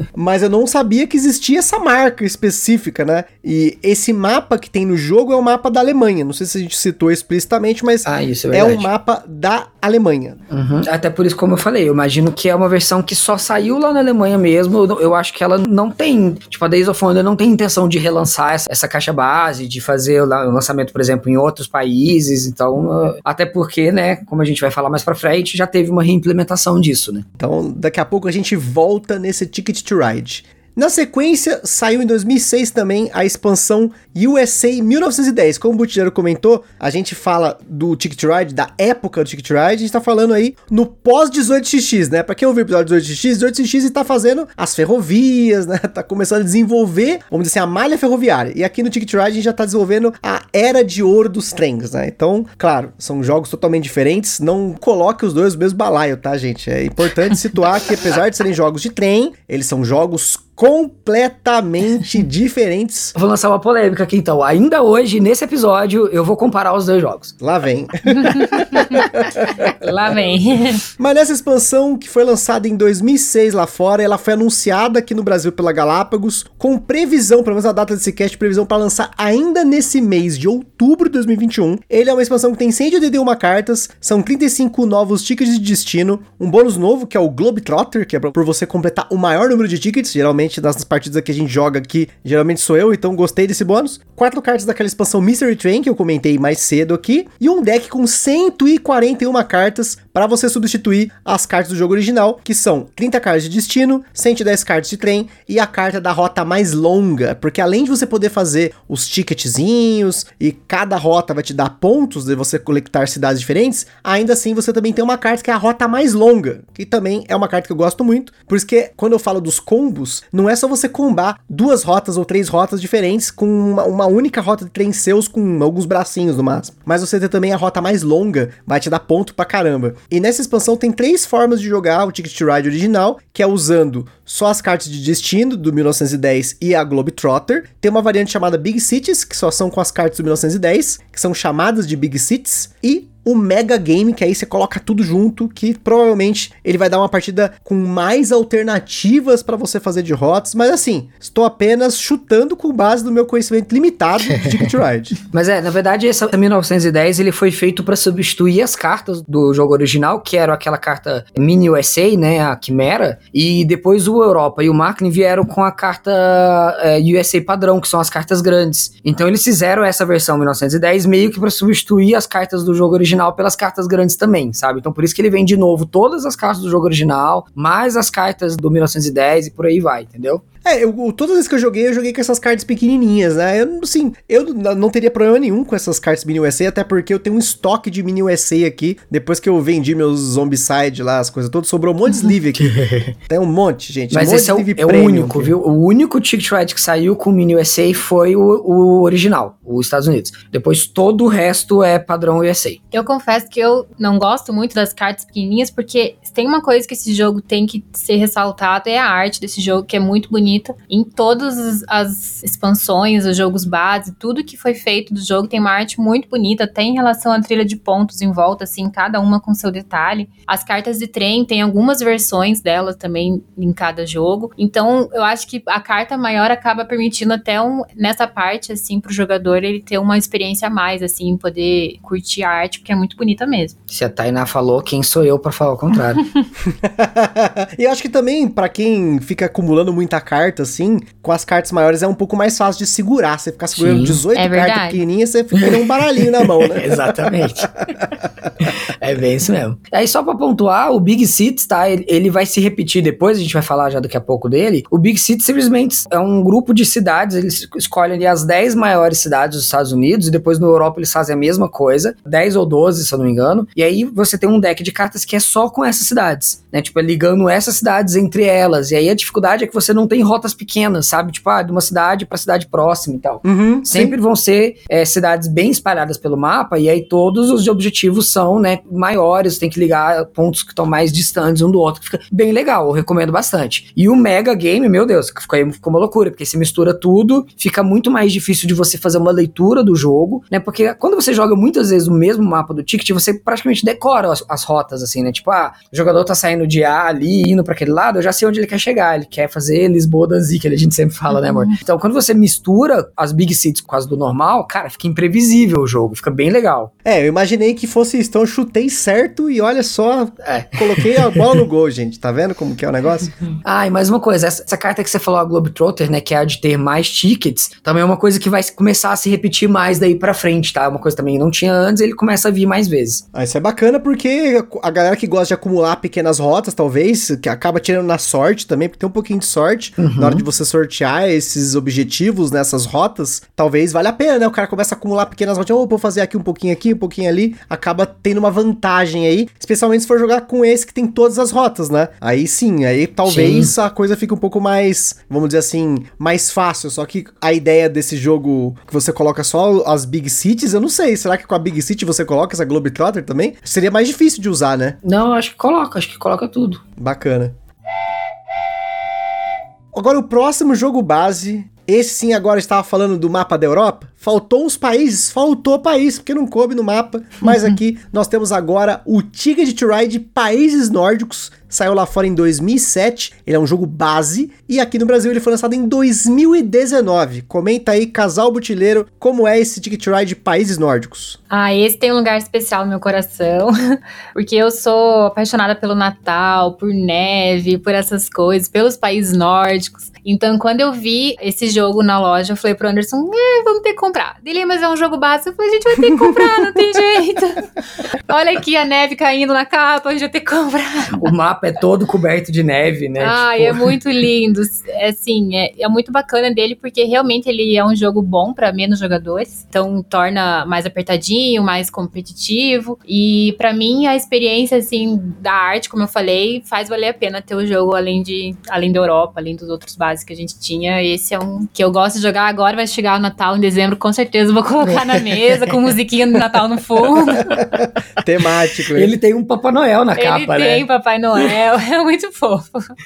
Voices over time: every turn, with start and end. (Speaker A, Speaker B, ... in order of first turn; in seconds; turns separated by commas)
Speaker A: 0.1-10.4, Speaker B: 8.1-8.9, Speaker B: 10.5-27.2, Speaker A: 27.4-63.1, Speaker B: 63.1-67.3, Speaker A: 67.4-69.7, Speaker C: 68.2-69.1, Speaker C: 69.6-70.8, Speaker A: 71.0-155.1, Speaker B: 155.3-180.4, Speaker A: 180.6-192.7, Speaker B: 192.6-193.1, Speaker A: 193.3-195.5, Speaker B: 194.1-202.8, Speaker C: 202.9-233.8, Speaker B: 233.9-236.2, Speaker A: 236.8-248.1, Speaker B: 243.8-244.2, Speaker C: 244.3-245.0, Speaker B: 245.6-247.7, Speaker B: 248.6-306.9, Speaker A: 273.4-274.2, Speaker A: 307.0-313.3, Speaker B: 310.4-311.6, Speaker B: 313.6-323.2, Speaker A: 323.3-355.0, Speaker B: 330.0-330.4, Speaker B: 343.2-343.7, Speaker B: 355.0-356.8, Speaker A: 357.0-357.5, Speaker A: 359.9-381.4, Speaker C: 381.5-401.2, Speaker B: 401.2-404.0, Speaker C: 403.2-427.6, Speaker A: 427.6-429.1, Speaker B: 428.9-430.8, Speaker C: 430.2-432.9